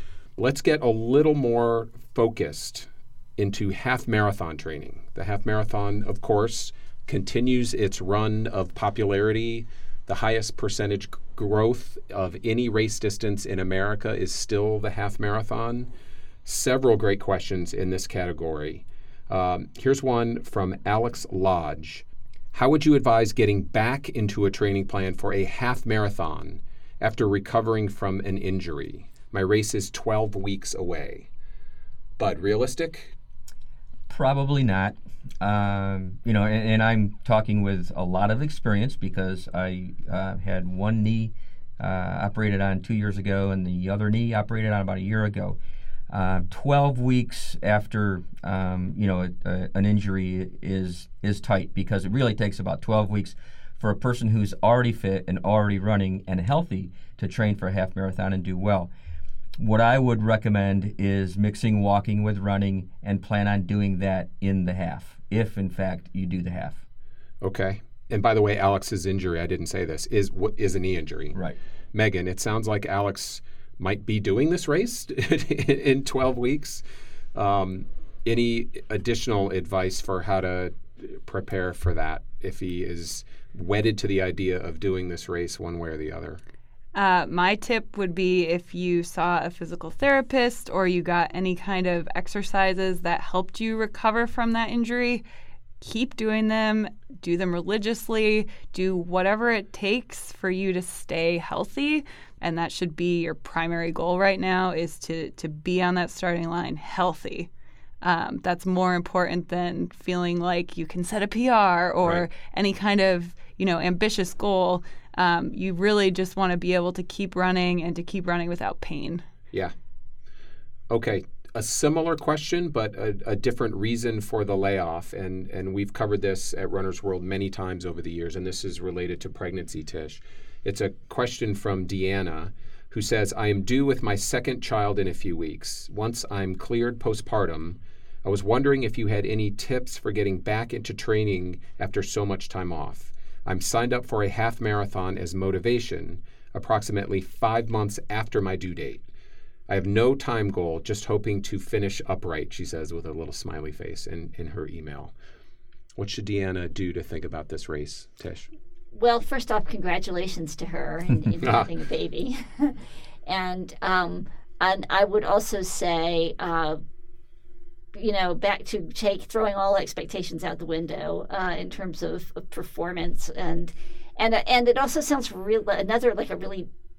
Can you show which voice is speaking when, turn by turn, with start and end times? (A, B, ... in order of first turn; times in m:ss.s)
0:00.4-0:15.9 A
0:16.4-0:31.3 A
0:32.2-0:33.2 A
0:34.1-0:45.6 B
0:46.1-0:58.9 B
0:59.6-1:06.8 B
1:07.4-1:11.4 A
1:11.9-1:16.8 A
1:17.4-1:26.4 A
1:27.0-1:35.2 C
1:35.8-1:47.5 C
1:48.0-1:59.2 C
2:00.9-2:29.0 A
2:29.7-2:35.1 A
2:36.0-2:38.5 A
2:38.9-2:46.8 D
2:41.4-2:41.7 A
2:48.0-2:56.7 D